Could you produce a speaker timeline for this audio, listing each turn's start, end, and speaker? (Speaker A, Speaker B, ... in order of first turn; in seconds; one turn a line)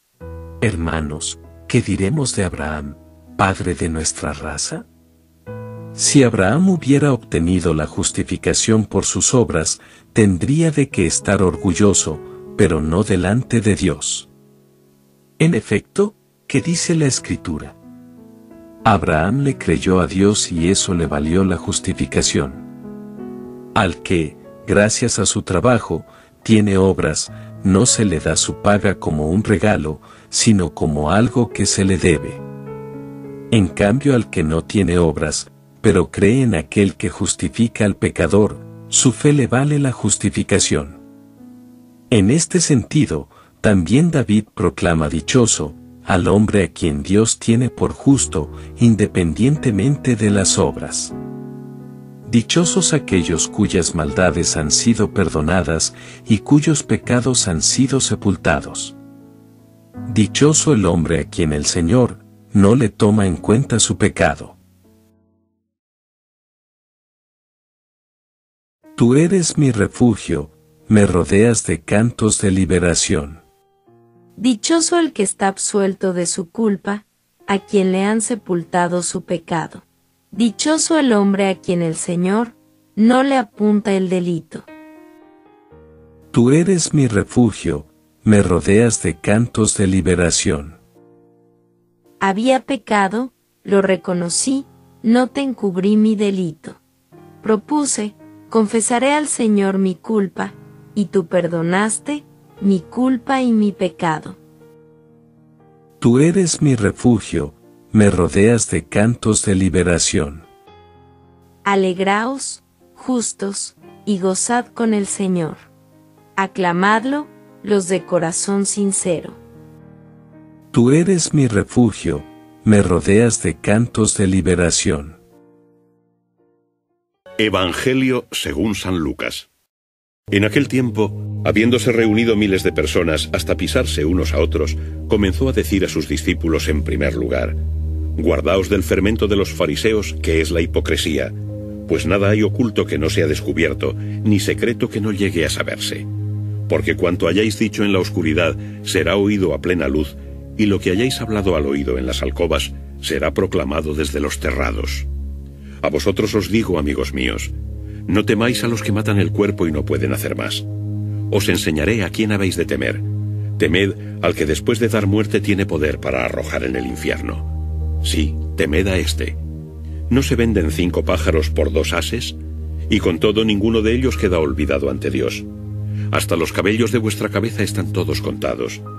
Speaker A: 0.6-4.9
Speaker A: 6.0-14.3
Speaker A: 15.4-17.8
Speaker A: 18.9-22.7
Speaker A: 23.8-32.4
Speaker A: 33.5-41.0
Speaker A: 42.1-51.1
Speaker A: 52.3-59.0
Speaker A: 60.1-64.6
Speaker A: 69.0-73.4
Speaker B: 74.4-84.7
Speaker A: 86.3-90.8
Speaker B: 92.2-96.8
Speaker B: 97.4-104.4
Speaker A: 106.0-110.5
Speaker B: 111.7-115.7
Speaker B: 116.4-119.4
Speaker A: 120.7-125.2
Speaker C: 127.4-129.5
Speaker C: 130.3-137.6
Speaker C: 138.2-141.3
Speaker C: 141.9-146.1
Speaker C: 146.7-155.1
Speaker C: 155.8-157.5
Speaker C: 158.1-160.7
Speaker C: 161.3-169.4
Speaker C: 170.1-172.4
Speaker C: 172.9-175.5
Speaker C: 176.1-178.8